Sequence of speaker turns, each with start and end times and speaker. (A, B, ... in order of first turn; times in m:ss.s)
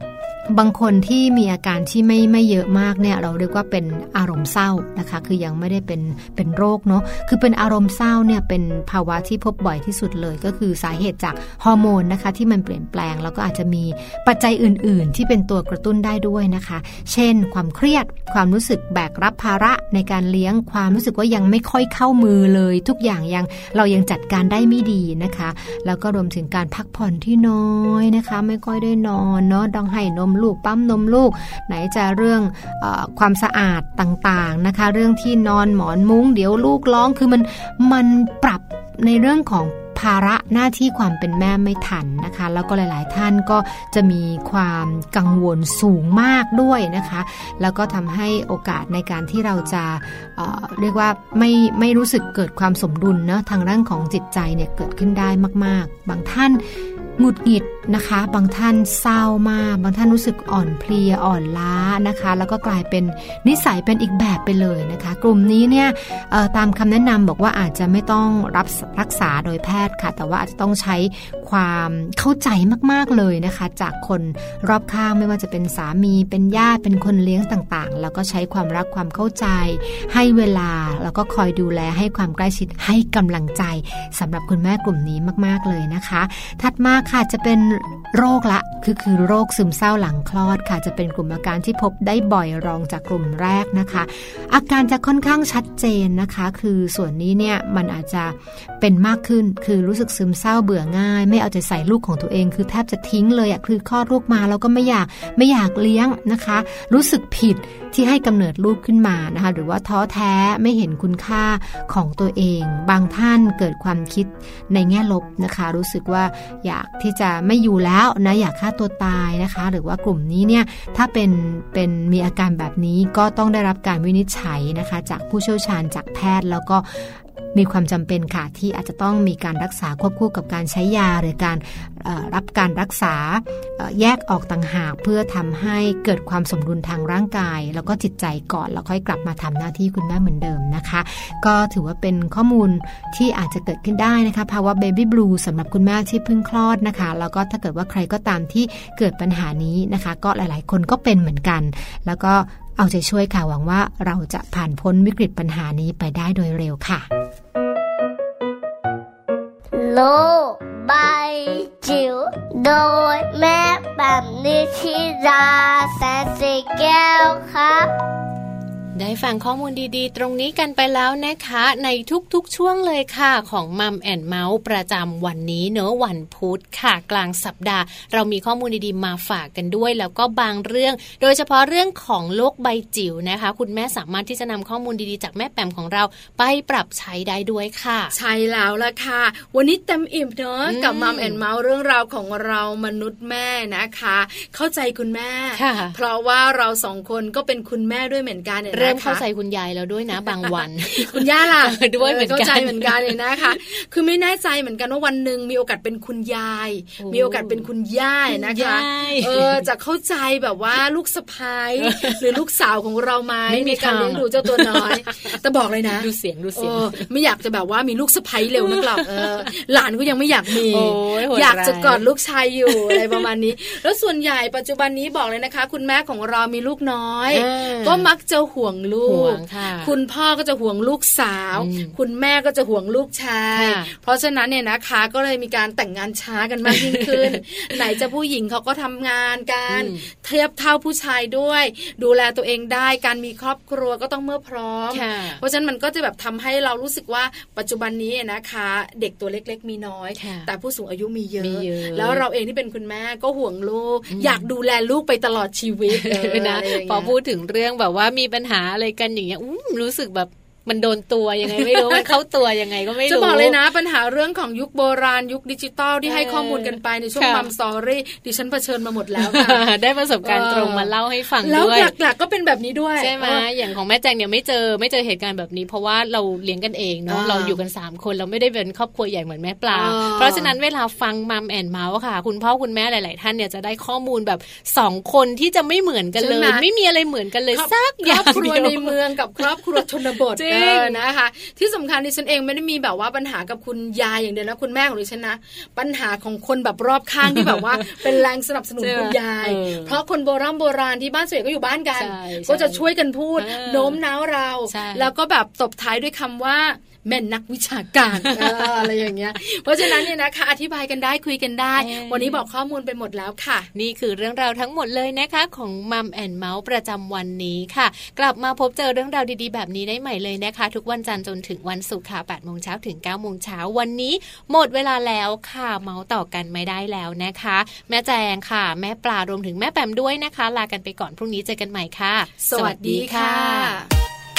0:00.5-0:56.6 A
0:57.2-2:37.1 A
2:39.7-2:47.9 B
2:48.9-3:08.2 C
3:08.1-3:19.2 D
3:10.7-3:11.4 C
3:15.5-3:16.0 C
3:18.7-3:23.6 C
3:20.5-4:17.1 D
3:27.0-3:27.7 C
3:28.3-3:29.7 C
3:31.8-3:32.3 C
3:33.5-3:35.4 C
3:35.9-3:37.1 C
3:38.6-3:39.4 C
3:40.6-3:42.0 C
3:42.7-3:43.2 C
3:47.3-3:48.1 C
3:49.0-3:49.9 C
3:51.6-3:52.0 C
3:53.5-3:53.9 C
3:56.6-3:57.8 C
3:59.7-4:00.0 C
4:04.9-4:05.4 C
4:10.2-4:10.5 C
4:11.4-4:12.2 C
4:14.1-4:14.5 C
4:15.9-4:23.6 C
4:21.6-4:22.1 D
4:23.0-4:29.6 D
4:26.0-4:27.5 C
4:29.2-4:31.9 C
4:30.2-4:33.4 D
4:33.0-4:51.0 C
4:37.1-4:37.6 D
4:39.7-4:40.5 D
4:46.2-4:46.6 D
4:47.5-5:13.7 D
4:57.2-4:58.2 C
4:58.8-5:00.0 C
5:02.0-5:04.0 C
5:04.7-5:05.1 C
5:08.2-5:08.9 C
5:09.8-5:10.1 C
5:11.8-5:12.4 C
5:13.7-5:33.7 C
5:32.4-5:33.9 D